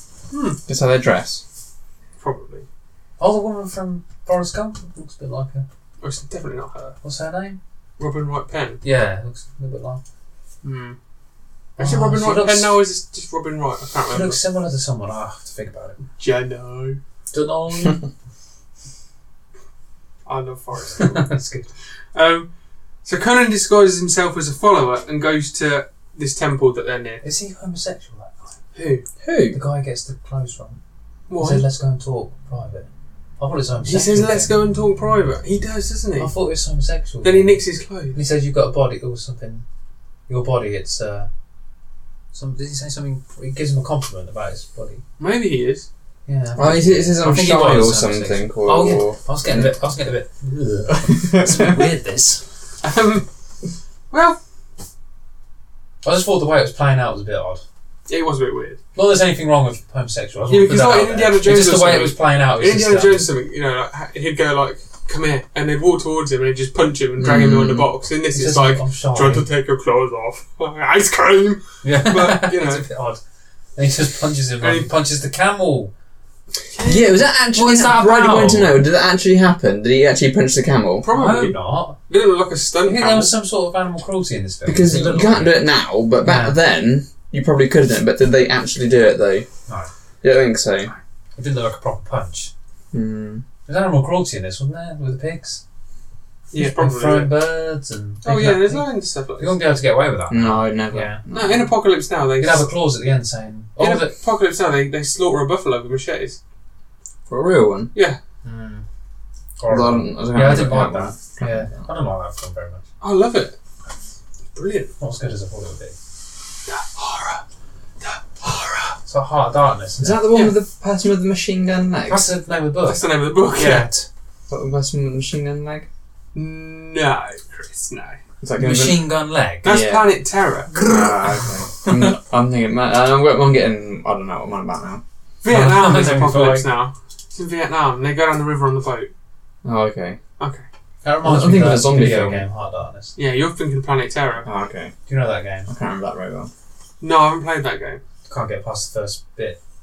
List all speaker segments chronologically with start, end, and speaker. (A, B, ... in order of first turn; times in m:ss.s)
0:00.3-0:00.6 A
0:00.7-0:01.4 B
0:02.2-0:02.6 A
0:03.2-0:05.6 C
0:06.0-0:07.0 A
0:07.0-0:07.6 C
0:08.0-0:08.8 A
0:08.8-0:10.0 C
0:10.6-0:11.0 A
0:11.8-0:12.8 C
0:11.8-0:14.4 A
0:14.1-0:16.0 C
0:16.2-0:17.0 A
0:17.3-0:18.0 C
0:20.2-0:21.2 A
0:21.0-0:21.7 C
0:22.1-0:22.5 A
0:23.0-0:27.2 A
0:27.2-0:28.5 C
0:28.7-0:29.0 A
0:29.2-0:29.6 B
0:29.5-0:30.8 C
0:31.3-0:31.6 A
0:31.4-0:32.9 C
0:33.4-0:34.5 C
0:33.8-0:36.3 A
0:36.2-0:37.6 C
0:37.2-0:38.2 A
0:38.1-0:39.6 C
0:40.3-0:41.3 C
0:42.3-0:45.0 C
0:45.2-0:45.9 A
0:46.3-0:52.4 C
0:46.6-0:49.7 B
0:51.2-0:51.9 B
0:52.8-0:53.3 A
0:54.1-0:54.4 A
0:56.0-0:57.6 C
0:58.1-0:58.8 A
0:58.9-1:03.2 C
1:00.5-1:12.8 A
1:07.2-1:07.9 B
1:08.3-1:09.4 C
1:11.8-1:13.2 C
1:13.8-1:15.9 C
1:14.6-1:14.9 A
1:16.7-1:17.2 A
1:16.8-1:21.0 B
1:17.5-1:18.8 C
1:21.0-1:23.3 A
1:21.1-1:22.0 C
1:22.8-1:25.6 C
1:24.6-1:29.5 B
1:26.2-1:26.6 C
1:30.2-1:30.9 B
1:31.4-1:32.5 C
1:32.9-1:33.4 B
1:33.6-1:35.6 C
1:36.5-1:37.3 A
1:36.6-1:41.2 C
1:38.2-1:39.7 A
1:40.3-1:41.6 B
1:41.3-1:42.7 A
1:42.4-1:44.1 C
1:43.8-1:46.4 A
1:47.3-1:47.9 B
1:47.9-1:48.2 A
1:48.4-1:48.8 C
1:49.6-1:52.8 C
1:49.7-1:51.8 B
1:53.0-1:53.6 A
1:54.5-1:54.9 A
1:55.0-1:55.9 C
1:56.7-1:57.4 A
1:58.0-1:59.0 A
1:59.0-2:00.2 C
2:00.0-2:02.3 B
2:02.1-2:04.1 C
2:02.8-2:03.9 A
2:04.5-2:05.9 B
2:06.3-2:08.2 A
2:08.4-2:09.1 B
2:08.6-2:09.7 C
2:09.6-2:10.8 A
2:09.6-2:10.1 B
2:10.7-2:15.0 B
2:10.9-2:12.1 C
2:15.4-2:19.1 A
2:15.5-2:16.7 C
2:19.6-2:20.2 B
2:20.4-2:20.6 A
2:21.0-2:23.1 C
2:21.2-2:22.4 B
2:23.2-2:24.4 A
2:24.4-2:24.9 B
2:25.1-2:25.7 C
2:25.7-2:26.5 B
2:27.0-2:28.0 A
2:28.3-2:29.6 C